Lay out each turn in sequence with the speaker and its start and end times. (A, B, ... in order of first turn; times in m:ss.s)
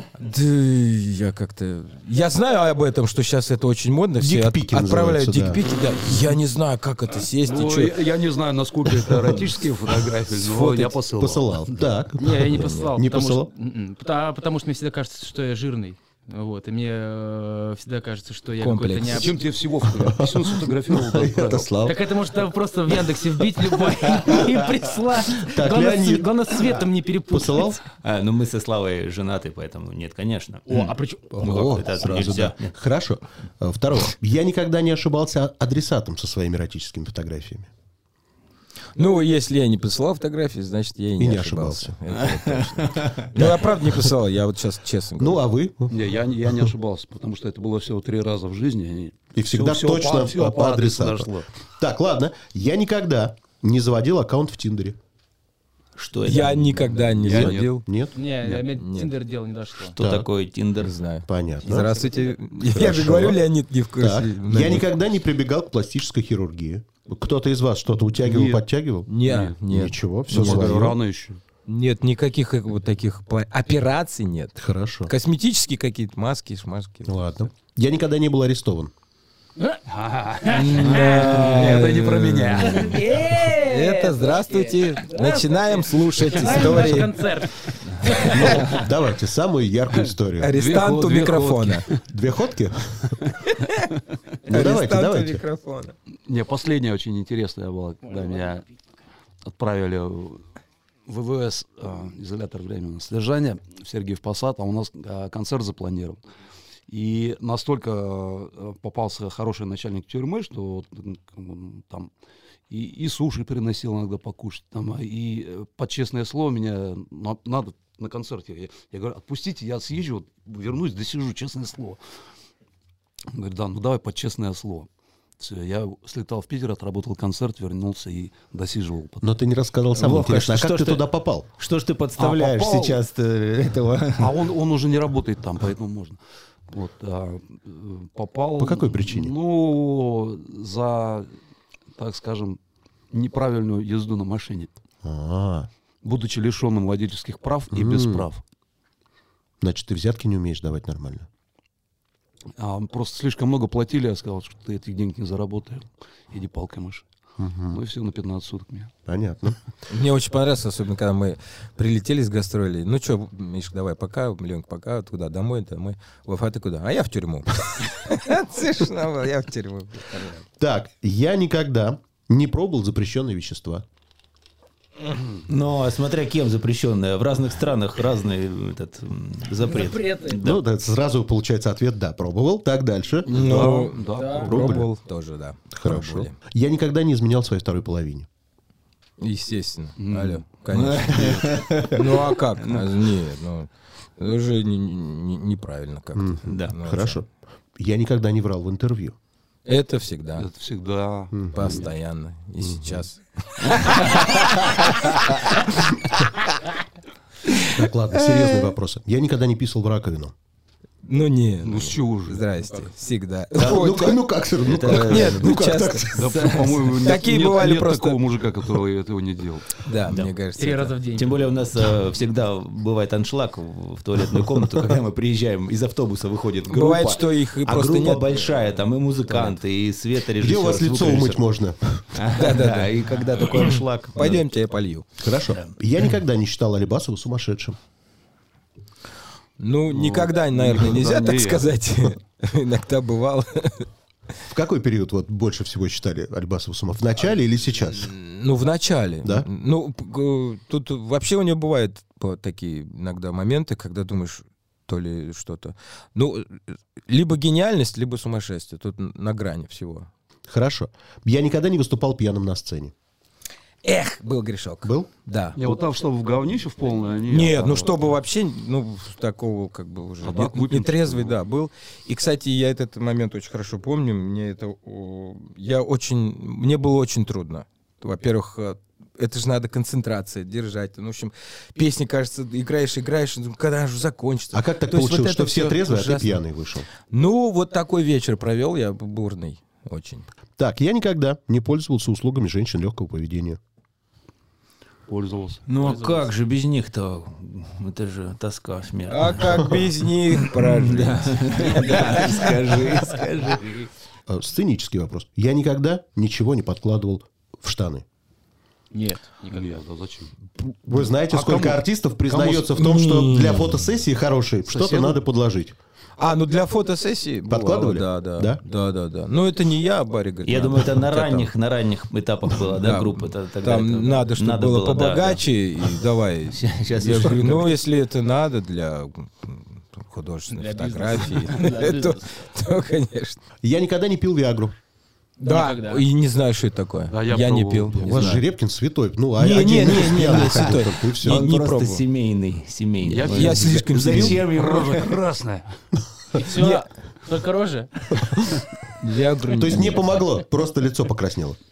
0:00.2-0:08.0 A
0:04.2-0:05.6 B
0:07.4-0:11.9 C
0:10.2-0:11.0 A
0:11.2-0:13.5 B
0:12.2-0:19.3 D
0:12.5-0:12.9 A
0:18.6-0:19.3 A
0:19.1-0:21.7 C
0:19.9-0:22.1 B
0:21.8-0:27.8 D
0:25.3-0:26.7 B
0:27.3-0:27.8 B
0:28.0-0:32.7 E
0:30.7-0:31.6 D
0:31.3-0:37.7 B
0:39.0-0:45.4 A
0:41.2-0:41.9 B
0:42.3-0:43.2 E
0:43.3-0:44.1 B
0:45.2-0:46.7 B
0:45.9-0:51.5 C
0:49.3-0:55.0 B
0:56.0-0:57.0 E
0:56.2-0:57.8 A
0:57.2-0:57.7 C
0:57.3-0:58.1 B
0:58.1-1:00.0 D
0:58.4-0:59.1 A
1:00.0-1:00.9 E
1:00.0-1:00.3 B
1:00.8-1:04.9 A
1:01.3-1:01.9 B
1:02.7-1:03.4 B
1:04.0-1:09.1 B
1:08.2-1:08.6 C
1:09.1-1:10.9 A
1:09.2-1:09.6 C
1:09.6-1:11.0 B
1:10.3-1:11.4 C
1:11.6-1:14.6 A
1:14.6-1:15.1 B
1:15.1-1:17.2 A
1:17.0-1:18.9 B
1:19.9-1:22.7 C
1:20.4-1:21.3 D
1:20.5-1:28.5 A
1:20.8-1:22.9 E
1:22.6-1:28.8 D
1:28.3-1:30.5 B
1:30.4-1:31.9 A
1:30.5-1:32.0 C
1:32.1-1:33.2 B
1:33.4-1:33.9 A
1:34.5-1:35.9 A
1:34.5-1:35.4 B
1:36.3-1:38.6 C
1:39.4-1:40.4 C
1:41.0-1:46.2 C
1:46.9-1:52.1 C
1:52.7-2:02.0 C
2:03.3-2:09.3 C
2:09.2-2:11.5 B
2:09.9-2:14.4 E
2:12.2-2:13.0 C
2:14.2-2:21.3 C
2:18.6-2:19.3 B
2:21.9-2:22.6 C
2:23.1-2:24.7 C
2:25.0-2:25.7 B
2:26.0-2:28.4 C
2:27.7-2:28.3 B
2:29.6-2:31.3 B
2:32.6-2:37.1 C
2:37.4-2:37.8 B
2:37.7-2:38.9 C
2:39.0-2:39.6 B
2:39.9-2:50.4 A
2:50.6-2:53.8 B
2:55.5-3:00.6 E
2:59.7-3:00.4 D
3:00.3-3:03.8 B
3:03.2-3:04.9 C
3:03.3-3:06.4 A
3:04.2-3:04.4 D
3:04.4-3:04.9 B
3:05.7-3:08.3 B
3:09.2-3:17.2 A
3:10.0-3:10.4 C
3:10.7-3:12.8 E
3:11.1-3:11.4 C
3:16.2-3:19.2 B
3:16.4-3:16.7 E
3:19.6-3:20.5 A
3:20.4-3:21.9 C
3:21.3-3:21.8 B
3:21.5-3:25.9 A
3:22.6-3:23.0 B
3:27.7-3:30.3 B
3:28.3-3:28.6 A
3:31.0-3:34.2 A
3:31.6-3:32.8 C
3:33.5-3:36.8 E
3:33.6-3:36.5 B
3:34.8-3:38.2 A
3:36.1-3:39.8 C
3:39.8-3:41.0 A
3:40.6-3:41.3 D
3:41.1-3:51.4 E
3:46.7-3:48.6 A
3:49.3-3:49.6 A
3:50.4-3:52.2 B
3:52.1-3:54.4 E
3:52.3-3:52.9 A
3:53.5-3:55.1 A
3:55.2-3:57.8 B
3:59.6-4:03.9 A
3:59.9-4:01.7 C
4:04.5-4:08.1 B
4:08.0-4:20.1 A
4:20.5-4:22.9 B
4:23.8-4:25.6 A
4:24.8-4:25.1 B
4:25.6-4:28.0 C
4:27.3-4:46.4 A
4:30.2-4:31.4 C
4:44.5-4:46.9 B
4:47.0-4:50.2 A
4:50.6-4:53.6 B
4:55.1-4:55.6 C
4:55.7-4:59.7 E
4:55.8-4:56.3 D
4:59.1-5:02.6 A
5:00.3-5:03.9 E
5:04.3-5:08.0 B
5:08.9-5:09.8 D
5:09.5-5:10.3 C
5:10.8-5:15.8 B
5:11.3-5:12.7 C
5:12.8-5:13.8 A
5:14.7-5:15.2 C
5:16.2-5:21.5 A
5:17.5-5:18.6 B
5:20.4-5:27.7 E
5:22.6-5:33.4 A
5:30.5-5:32.3 D
5:33.6-5:34.8 B
5:35.4-5:36.0 D
5:35.4-5:38.4 A
5:37.1-5:38.4 C
5:38.0-5:41.5 B
5:39.4-5:42.0 A
5:40.1-5:45.2 E
5:43.0-5:45.8 C
5:43.2-5:44.4 A
5:46.3-5:46.7 B
5:46.3-5:48.2 D
5:49.0-5:50.2 A
5:49.4-5:51.6 B